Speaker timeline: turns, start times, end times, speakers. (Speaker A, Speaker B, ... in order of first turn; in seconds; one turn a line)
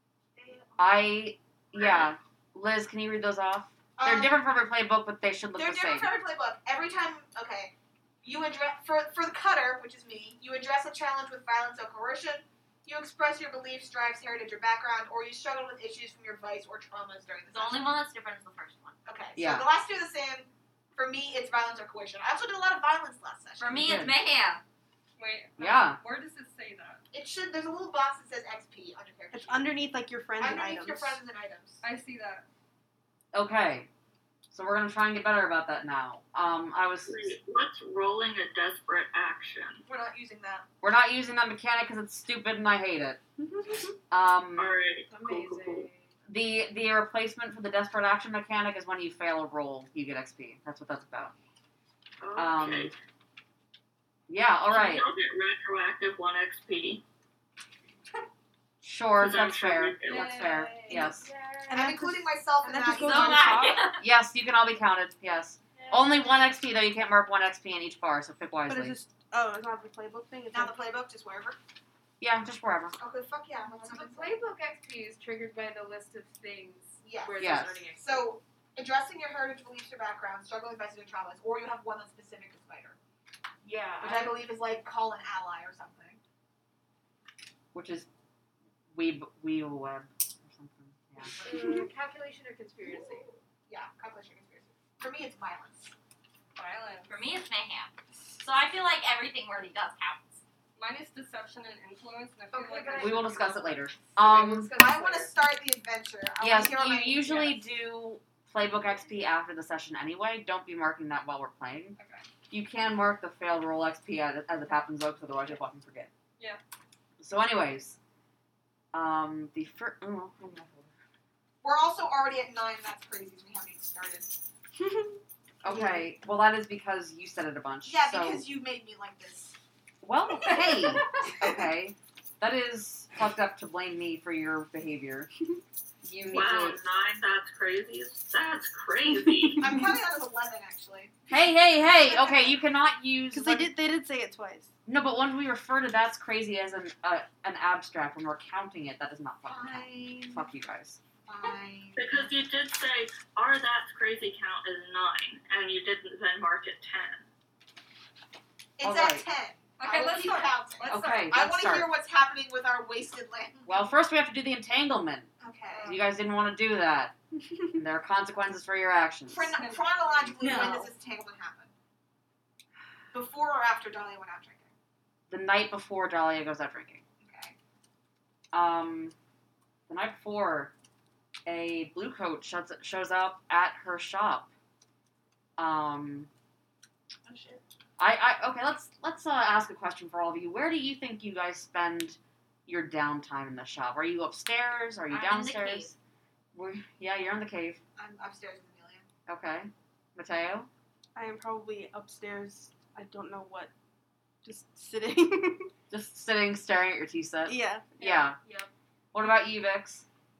Speaker A: 0.4-0.6
Speaker B: 0.8-6.1
Speaker A: 4.0-4.4
Speaker A: 5.5-18.0
Speaker C: 17.5-19.0
Speaker A: 19.0-23.8
Speaker B: 19.4-19.7
Speaker C: 23.6-24.6
Speaker B: 23.7-24.1
Speaker D: 25.2-27.0
Speaker B: 25.6-26.0
Speaker A: 27.1-29.7
Speaker E: 29.3-31.2
Speaker A: 30.4-31.8
Speaker D: 31.8-32.5
Speaker B: 33.3-33.9
Speaker B: 34.5-37.4
Speaker F: 37.1-39.8
Speaker A: 39.9-40.6
Speaker B: 40.8-43.2
Speaker E: 43.4-43.9
Speaker B: 44.1-44.7
Speaker F: 44.6-45.9
Speaker G: 45.1-46.1
Speaker B: 46.3-51.3
Speaker F: 52.2-52.9
Speaker B: 52.4-52.9
Speaker B: 54.3-55.1
Speaker F: 54.7-57.0
Speaker B: 58.8-61.3
Speaker F: 59.2-60.5
Speaker D: 60.1-61.1
Speaker G: 60.9-61.9
Speaker E: 61.7-63.9
Speaker A: 61.7-63.7
Speaker C: 63.0-64.0
Speaker B: 64.0-69.0
Speaker G: 65.8-66.2
Speaker E: 68.7-70.7
Speaker A: 70.5-71.6
Speaker B: 72.2-73.0
Speaker A: 73.0-74.4
Speaker G: 73.8-78.3
Speaker A: 77.0-83.0
Speaker B: 77.4-77.8
Speaker G: 83.6-84.5
Speaker A: 84.0-86.2
Speaker B: 87.7-88.1
Speaker B: 88.9-91.3
Speaker G: 91.3-93.3
Speaker A: 93.7-95.9
Speaker D: 96.5-97.2
Speaker C: 97.1-100.4
Speaker D: 100.8-103.3
Speaker G: 102.5-105.3
Speaker B: 102.9-104.7
Speaker A: 104.7-107.6
Speaker B: 106.4-112.0
Speaker D: 112.0-112.2
Speaker B: 112.5-116.1
Speaker B: 117.2-118.0
Speaker B: 118.9-120.9
Speaker A: 121.6-124.4
Speaker E: 124.8-126.0
Speaker B: 125.6-128.4
Speaker A: 127.8-129.6
Speaker B: 130.0-135.3
Speaker B: 136.0-136.8
Speaker F: 136.3-139.7
Speaker A: 139.6-141.2
Speaker B: 141.3-143.7
Speaker A: 142.0-142.5
Speaker E: 143.3-144.7
Speaker B: 144.8-151.0
Speaker A: 149.4-150.5
Speaker A: 151.3-152.3
Speaker F: 151.9-157.3
Speaker A: 158.8-163.9
Speaker B: 158.8-159.2
Speaker D: 159.8-161.3
Speaker B: 160.9-161.9
Speaker B: 163.7-165.3
Speaker A: 165.4-166.0
Speaker B: 165.8-167.1
Speaker B: 167.7-169.5
Speaker A: 169.3-171.7
Speaker D: 169.5-170.5
Speaker E: 170.4-170.7
Speaker C: 170.4-170.9
Speaker A: 173.1-174.7
Speaker B: 175.3-177.0
Speaker A: 177.2-177.6
Speaker B: 178.5-179.1
Speaker B: 179.9-180.7
Speaker B: 181.4-184.5
Speaker B: 185.6-186.3
Speaker A: 187.2-187.6
Speaker B: 188.0-195.9
Speaker C: 195.1-195.9
Speaker B: 196.5-197.8
Speaker A: 198.0-199.1
Speaker B: 199.3-200.7
Speaker E: 201.1-203.7
Speaker E: 204.4-205.7
Speaker B: 205.9-208.4
Speaker E: 207.4-207.9
Speaker G: 208.0-208.7
Speaker B: 209.1-210.1